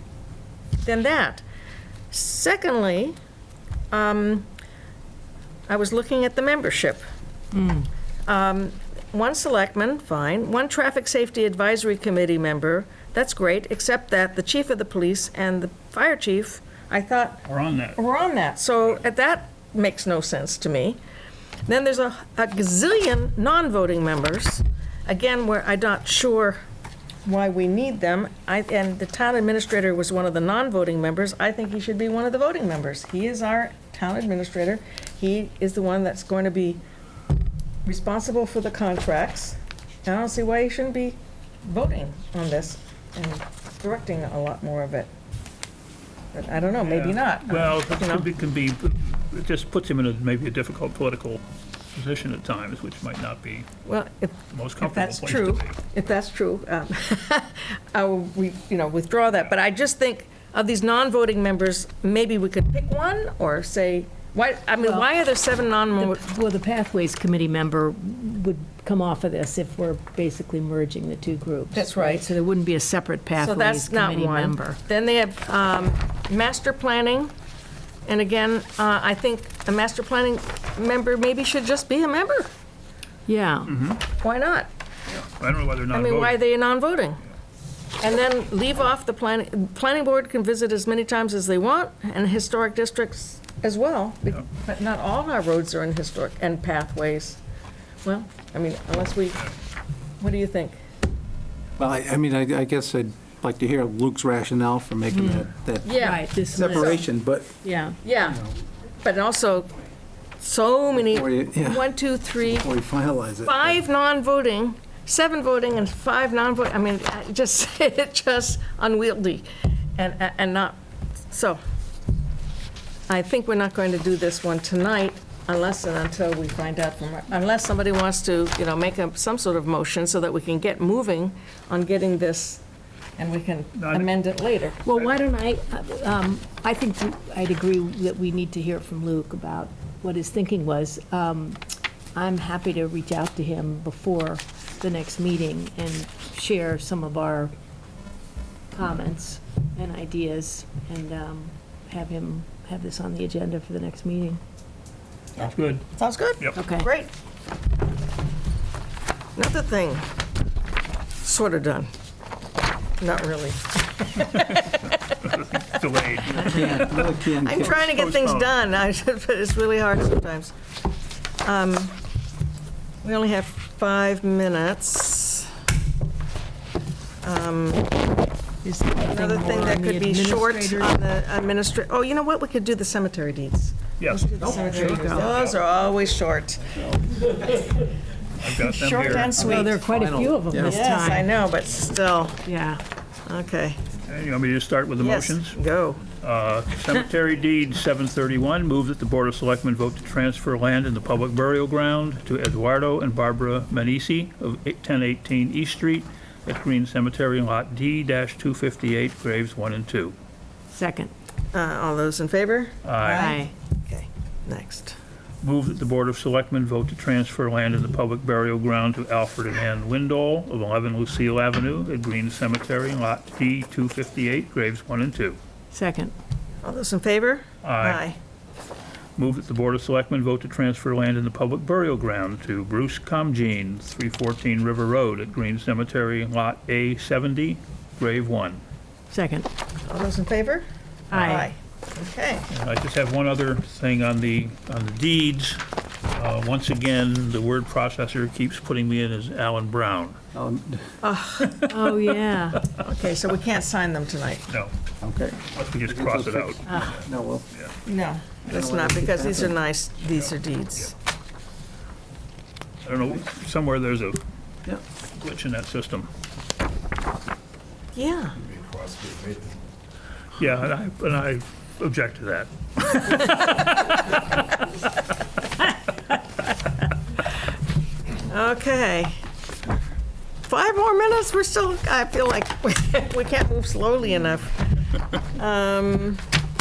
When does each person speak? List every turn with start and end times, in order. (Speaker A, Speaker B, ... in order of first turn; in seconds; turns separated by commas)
Speaker A: 0.8-1.4, Speaker A: 2.1-3.2, Speaker A: 3.9-4.5, Speaker A: 5.7-7.0, Speaker B: 7.5-7.9, Speaker A: 8.3-17.4, Speaker C: 17.5-18.0, Speaker A: 18.0-21.0, Speaker A: 21.7-26.6, Speaker A: 27.2-36.8, Speaker A: 37.9-45.1, Speaker A: 46.3-48.3, Speaker C: 46.9-51.4, Speaker C: 51.9-53.7, Speaker A: 53.9-66.2, Speaker C: 54.5-55.8, Speaker B: 64.8-65.1, Speaker B: 66.0-74.8, Speaker A: 71.7-72.4, Speaker A: 73.4-77.3, Speaker A: 78.1-82.5, Speaker B: 83.3-83.8, Speaker C: 83.7-84.0, Speaker A: 84.0-84.7, Speaker C: 85.4-86.4, Speaker A: 85.9-87.2, Speaker A: 88.0-97.4, Speaker A: 98.0-99.5, Speaker A: 100.2-100.8, Speaker D: 101.8-107.6, Speaker B: 105.1-107.0, Speaker A: 105.8-107.0, Speaker B: 107.6-108.0, Speaker A: 108.0-108.4, Speaker A: 109.0-109.7, Speaker A: 110.4-112.7, Speaker D: 111.1-113.8, Speaker A: 113.5-121.6, Speaker A: 123.1-132.6, Speaker A: 133.2-134.8, Speaker C: 133.8-134.1, Speaker B: 134.8-141.6, Speaker B: 142.2-147.5, Speaker B: 148.7-154.4, Speaker A: 155.4-157.1, Speaker C: 155.4-155.9, Speaker B: 156.6-156.9, Speaker A: 159.3-160.1, Speaker A: 161.2-161.9, Speaker A: 163.0-165.3, Speaker C: 164.3-164.6, Speaker C: 165.2-168.5, Speaker D: 166.3-167.8, Speaker A: 167.2-170.6, Speaker A: 171.4-172.0, Speaker A: 173.0-175.5, Speaker A: 177.2-178.0, Speaker B: 178.6-181.0, Speaker A: 179.1-187.8, Speaker C: 184.0-184.6, Speaker B: 184.4-185.3, Speaker C: 185.2-185.6, Speaker C: 188.4-189.4, Speaker A: 188.4-189.8, Speaker B: 189.3-191.3, Speaker D: 189.9-190.8, Speaker A: 190.6-192.4, Speaker B: 192.4-192.8, Speaker A: 193.3-193.8, Speaker C: 194.1-195.6, Speaker A: 195.0-196.0, Speaker C: 196.2-210.2, Speaker B: 210.7-211.1, Speaker A: 211.5-215.0, Speaker C: 212.8-213.3, Speaker B: 213.1-213.5, Speaker C: 215.4-225.4, Speaker B: 225.7-226.1, Speaker A: 226.6-228.2, Speaker C: 227.6-228.0, Speaker C: 229.2-238.6, Speaker B: 239.1-239.5, Speaker A: 239.9-242.5, Speaker B: 241.1-241.5, Speaker C: 242.5-250.2, Speaker D: 250.3-251.0, Speaker A: 251.0-251.7, Speaker B: 251.7-252.7, Speaker A: 252.8-254.5, Speaker C: 254.5-254.7, Speaker D: 255.0-257.5, Speaker C: 255.5-257.7, Speaker B: 256.7-257.0, Speaker A: 257.9-260.9, Speaker D: 258.5-259.5, Speaker C: 262.8-264.2, Speaker C: 265.2-266.1, Speaker A: 267.9-268.4, Speaker C: 270.4-274.2, Speaker A: 273.4-273.6, Speaker A: 278.3-279.2, Speaker A: 280.4-286.2